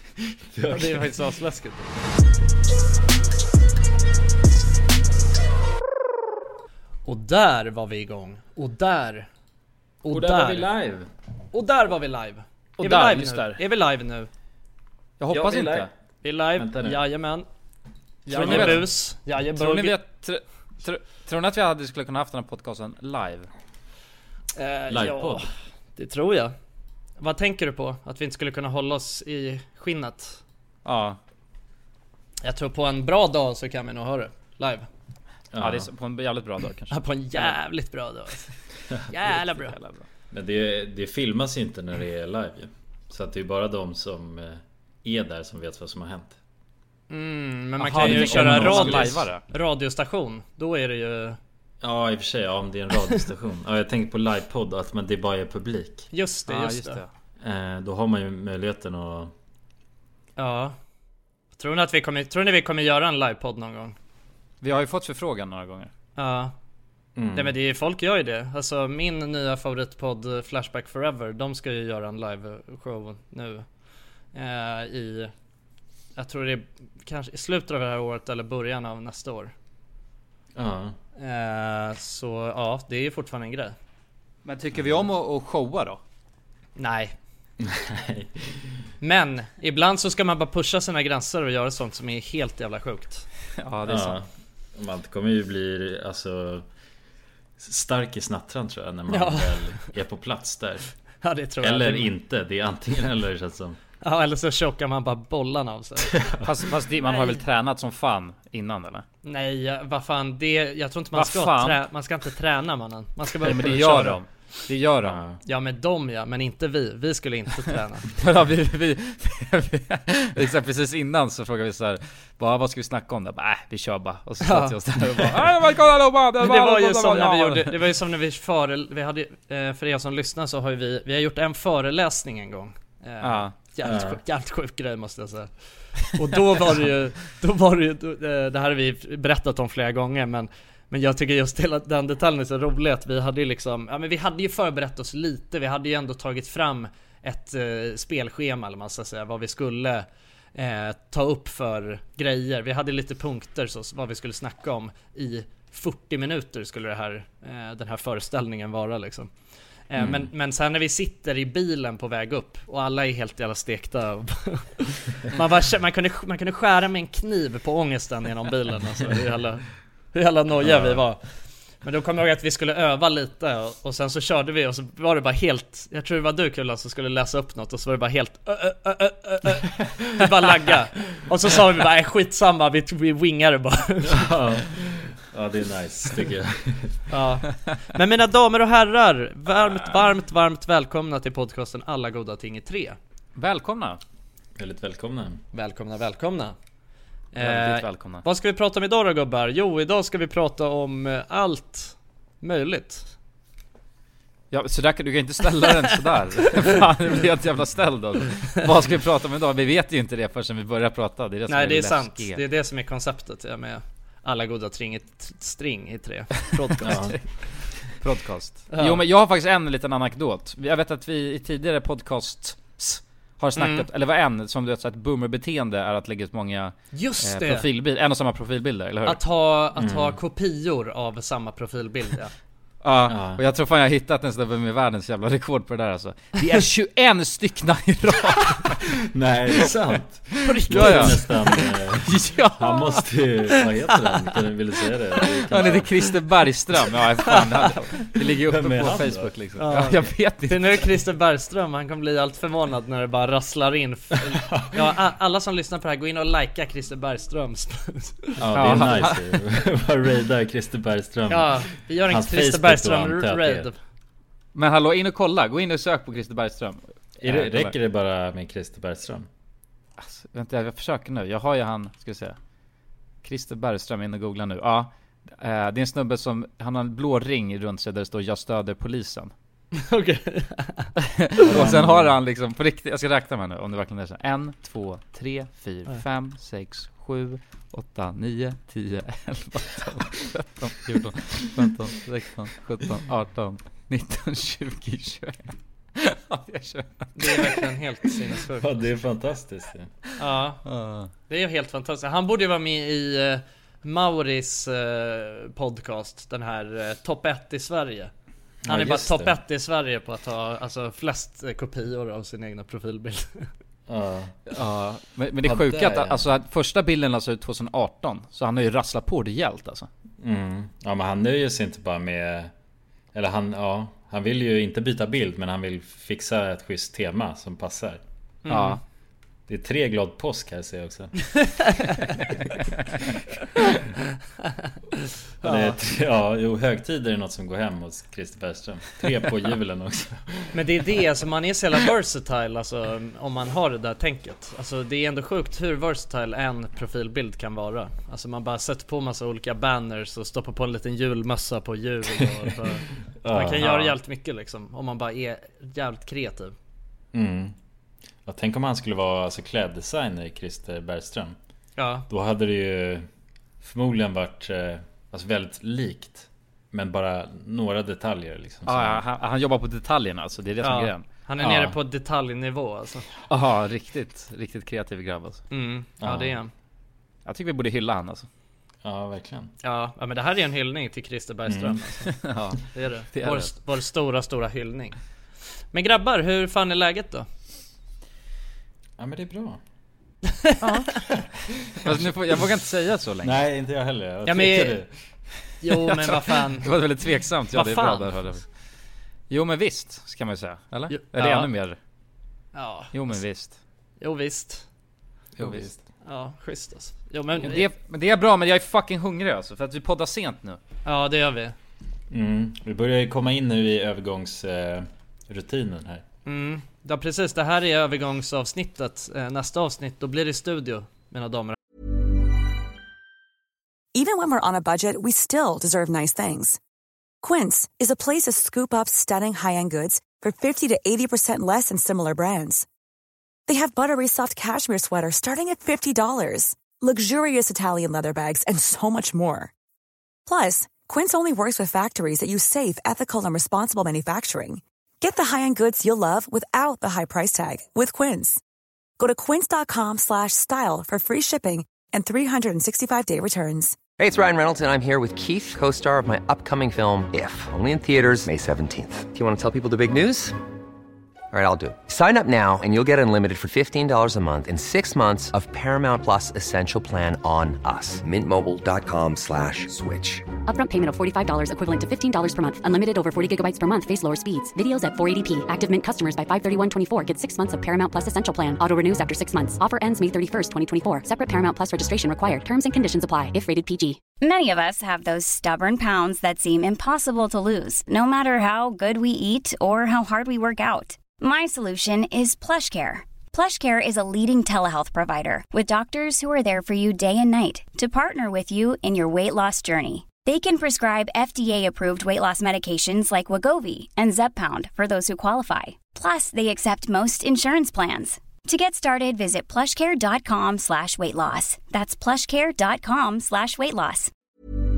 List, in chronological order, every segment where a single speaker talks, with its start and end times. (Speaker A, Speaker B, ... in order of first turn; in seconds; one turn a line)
Speaker A: 0.5-1.1
Speaker B: 0.7-1.9
Speaker B: 7.0-9.3
Speaker B: 10.0-10.7
Speaker A: 10.1-11.1
Speaker B: 11.5-14.3
Speaker C: 12.8-13.6
Speaker C: 15.2-15.9
Speaker A: 15.3-15.9
Speaker B: 16.2-17.5
Speaker A: 16.6-17.0
Speaker B: 18.3-20.0
Speaker C: 18.3-18.9
Speaker A: 18.3-18.8
Speaker C: 19.5-23.5
Speaker B: 24.6-25.4
Speaker A: 24.9-25.4
Speaker B: 26.0-26.5
Speaker B: 27.2-30.4
Speaker C: 30.9-31.2
Speaker B: 32.4-34.9
Speaker A: 35.5-35.9
Speaker C: 35.6-37.6
Speaker B: 36.9-38.5
Speaker B: 39.1-39.8
Speaker C: 39.3-40.0
Speaker A: 40.3-46.4
Speaker B: 47.1-51.4
Speaker C: 47.8-49.4
Speaker A: 48.0-49.2
Speaker A: 51.8-56.1
Speaker B: 56.1-57.0
Speaker C: 56.5-57.1
Speaker A: 57.4-59.3
Speaker B: 60.4-60.8
Speaker B: 61.6-64.0
Speaker C: 64.6-65.9
Speaker B: 66.2-66.5
Speaker A: 67.2-67.5
Speaker B: 67.3-73.7
Speaker B: 74.3-75.3
Speaker B: 76.2-79.5
Speaker A: 80.5-81.0
Speaker B: 81.2-83.8
Speaker C: 84.5-86.0
Speaker B: 86.8-87.2
Speaker A: 87.6-88.7
Speaker B: 89.0-93.3
Speaker C: 93.6-94.2
Speaker A: 93.9-96.7
Speaker A: 97.6-100.9
Speaker B: 99.1-99.8
Speaker B: 101.2-102.1
Speaker A: 101.6-103.8
Speaker B: 104.0-106.2
Speaker A: 106.0-106.5
Speaker C: 106.4-109.0
Speaker B: 107.0-107.4
Speaker B: 109.2-114.2
Speaker C: 111.1-111.8
Speaker C: 113.4-115.2
Speaker A: 115.0-115.4
Speaker B: 115.4-118.1
Speaker C: 118.1-127.8
Speaker B: 124.4-124.8
Speaker B: 126.4-135.5
Speaker C: 133.2-133.6
Speaker A: 133.8-134.2
Speaker B: 136.1-159.3
Speaker B: 159.9-171.2
Speaker A: 160.0-160.3
Speaker A: 170.6-171.0
Speaker B: 171.8-184.4
Speaker A: 184.1-187.0
Speaker B: 187.1-193.0
Speaker C: 193.4-194.0
Speaker A: 194.6-195.4
Speaker B: 195.5-196.6
Speaker B: 197.3-203.1
Speaker C: 197.4-198.2
Speaker C: 204.5-212.4
Speaker B: 211.5-217.4
Speaker A: 216.8-217.2
Speaker C: 216.9-217.2
Speaker C: 217.9-229.2
Speaker B: 218.7-219.0
Speaker B: 223.6-223.9
Speaker B: 226.9-227.7
Speaker B: 229.1-232.3
Speaker A: 229.8-230.2
Speaker C: 232.8-238.8
Speaker A: 233.1-233.4
Speaker A: 239.1-245.9
Speaker B: 240.4-241.3
Speaker C: 240.7-243.1
Speaker B: 243.9-244.2
Speaker C: 245.5-250.8
Speaker B: 247.3-247.7
Speaker A: 248.4-249.7
Speaker B: 249.6-258.4
Speaker A: 254.4-254.7
Speaker A: 258.4-263.7
Speaker C: 258.5-259.4
Speaker B: 261.3-263.8
Speaker C: 264.6-267.8
Speaker A: 267.2-269.3
Speaker C: 270.0-272.4
Speaker C: 273.2-279.3
Speaker B: 279.8-280.9
Speaker C: 281.0-297.7
Speaker A: 281.4-282.2
Speaker B: 297.2-298.9
Speaker A: 298.6-299.9
Speaker B: 300.2-300.6
Speaker C: 300.6-301.1
Speaker B: 301.3-308.1
Speaker A: 308.6-309.3
Speaker B: 308.7-313.5
Speaker A: 313.9-314.4
Speaker C: 314.5-319.9
Speaker A: 315.4-316.3
Speaker A: 320.2-322.5
Speaker A: 323.1-328.0
Speaker B: 328.4-328.8
Speaker C: 328.5-328.8
Speaker A: 329.5-331.1
Speaker A: 335.4-340.5
Speaker B: 335.4-335.8
Speaker B: 340.5-356.5
Speaker A: 353.1-353.9
Speaker A: 357.1-357.6
Speaker A: 358.2-361.4
Speaker B: 361.8-362.1
Speaker A: 362.1-363.1
Speaker A: 363.6-369.0
Speaker C: 368.7-371.1
Speaker B: 370.6-373.1
Speaker A: 371.4-371.8
Speaker C: 373.3-375.4
Speaker B: 375.5-376.5
Speaker A: 376.0-376.4
Speaker C: 377.3-378.3
Speaker A: 378.8-379.5
Speaker B: 379.6-382.1
Speaker A: 381.5-381.8
Speaker C: 382.1-383.5
Speaker B: 382.7-385.0
Speaker B: 385.7-387.3
Speaker A: 389.0-389.6
Speaker B: 390.4-391.0
Speaker C: 390.6-390.9
Speaker C: 391.8-393.4
Speaker A: 393.2-394.9
Speaker B: 394.3-394.8
Speaker B: 395.6-396.8
Speaker C: 395.7-398.4
Speaker B: 397.5-398.1
Speaker C: 399.3-401.8
Speaker B: 400.9-401.5
Speaker B: 402.5-403.2
Speaker C: 402.9-403.6
Speaker B: 404.0-404.6
Speaker A: 405.4-405.8
Speaker C: 405.4-405.7
Speaker B: 406.0-407.6
Speaker C: 407.4-410.6
Speaker B: 410.9-411.6
Speaker A: 412.1-416.0
Speaker B: 416.3-421.6
Speaker D: 423.9-426.6
Speaker D: 427.2-432.7
Speaker D: 433.5-439.5
Speaker D: 440.3-448.4
Speaker D: 449.0-453.8
Speaker E: 454.0-460.4
Speaker E: 461.3-470.3
Speaker F: 470.5-484.0
Speaker G: 484.2-514.1